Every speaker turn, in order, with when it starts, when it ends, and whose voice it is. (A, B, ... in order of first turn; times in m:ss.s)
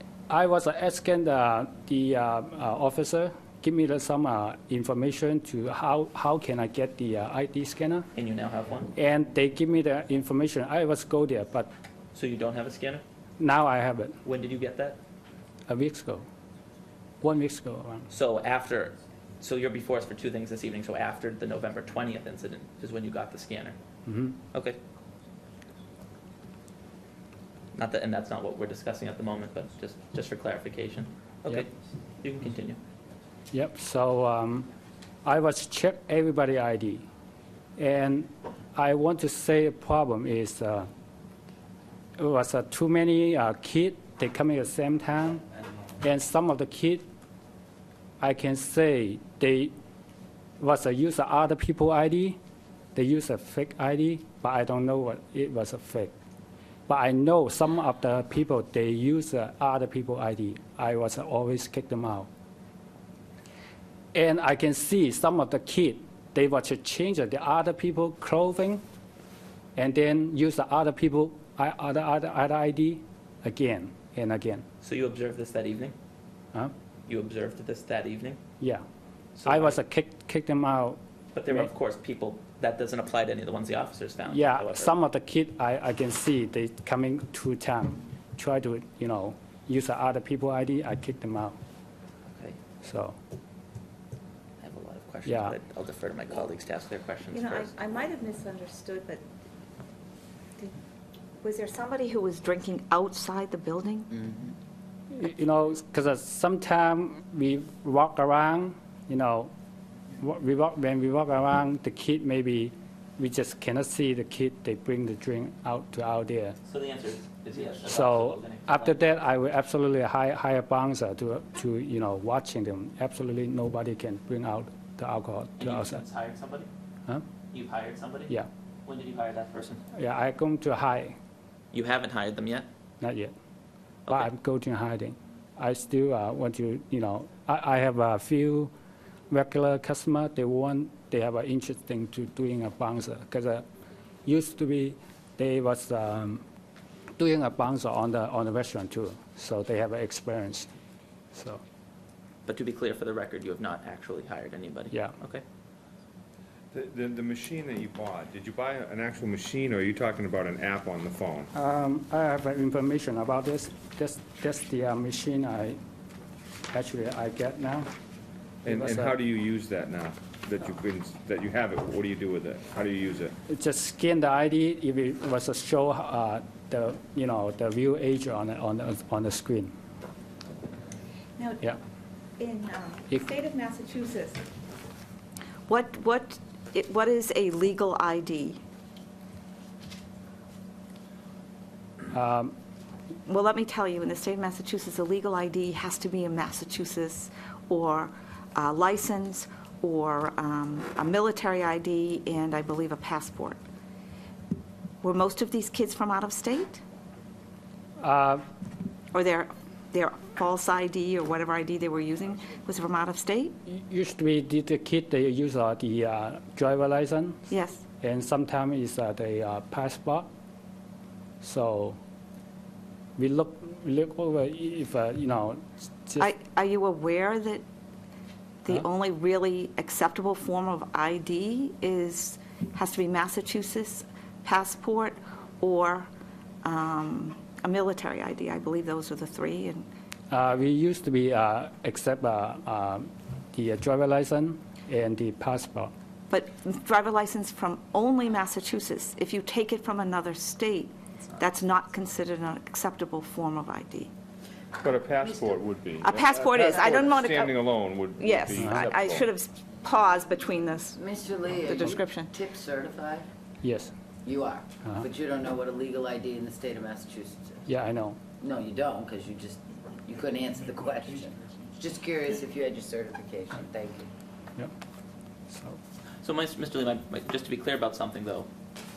0:00.3-0:08.1 A
0:08.2-0:09.0 B
0:09.0-0:11.7 A
0:12.1-0:13.0 B
0:13.4-0:14.2 A
0:14.2-0:15.0 B
0:15.7-0:16.3 A
0:17.2-0:18.1 A
0:18.1-0:23.8 B
0:24.1-0:24.4 A
0:24.5-0:24.8 B
0:27.8-0:31.7 B
0:32.2-0:32.8 B
0:33.5-0:34.7 A
0:35.2-0:37.0 A
0:37.8-0:40.9 A
0:42.2-0:45.4 A
0:46.0-0:47.1 A
0:48.2-0:49.8 A
0:50.6-0:52.4 A
0:53.0-0:56.1 A
0:56.9-1:02.3 A
1:04.1-1:08.8 A
1:09.8-1:14.7 A
1:14.8-1:16.0 B
1:17.1-1:18.4 B
1:19.4-1:19.8 B
1:19.4-1:21.0 A
1:21.3-1:24.9 B
1:24.3-1:31.6 A
1:32.8-1:33.2 A
1:34.6-1:37.7 B
1:35.2-1:35.6 A
1:37.3-1:39.2 C
1:41.4-1:44.1 C
1:44.2-1:44.5 D
1:45.1-1:49.5 A
1:50.2-1:56.6 A
1:56.7-1:59.1 B
1:57.9-2:06.0 A
2:05.6-2:06.7 B
2:07.5-2:08.3 B
2:08.8-2:09.8 B
2:09.9-2:11.2 A
2:11.7-2:12.7 B
2:13.0-2:13.3 A
2:14.1-2:18.7 A
2:19.3-2:23.6 A
2:24.3-2:26.4 A
2:27.2-2:30.7 A
2:31.3-2:31.6 A
2:32.5-2:35.4 B
2:36.7-2:41.5 E
2:41.5-2:45.8 A
2:46.7-2:47.9 A
2:48.6-2:53.3 E
2:48.7-2:49.1 A
2:53.5-2:59.7 A
3:01.4-3:01.7 C
3:02.4-3:04.4 C
3:05.7-3:08.6 C
3:12.1-3:12.5 A
3:13.3-3:23.6 C
3:25.0-3:26.8 C
3:28.0-3:28.4 A
3:29.1-3:33.5 C
3:33.7-3:37.4 A
3:37.5-3:37.8 C
3:38.0-3:40.3 A
3:41.4-3:42.0 A
3:43.2-3:46.3 A
3:46.2-3:47.6 C
3:48.6-3:56.1 C
3:56.6-3:59.9 C
4:00.3-4:05.9 A
4:06.3-4:14.1 C
4:14.8-4:19.3 E
4:15.2-4:15.6 D
4:16.0-4:17.6 C
4:18.2-4:21.0 C
4:18.6-4:18.9 A
4:20.9-4:23.3 D
4:21.6-4:22.3 C
4:23.6-4:23.9 A
4:24.3-4:27.6 D
4:27.7-4:28.2 A
4:28.4-4:34.1 D
4:35.5-4:35.8 A
4:36.2-4:38.5 B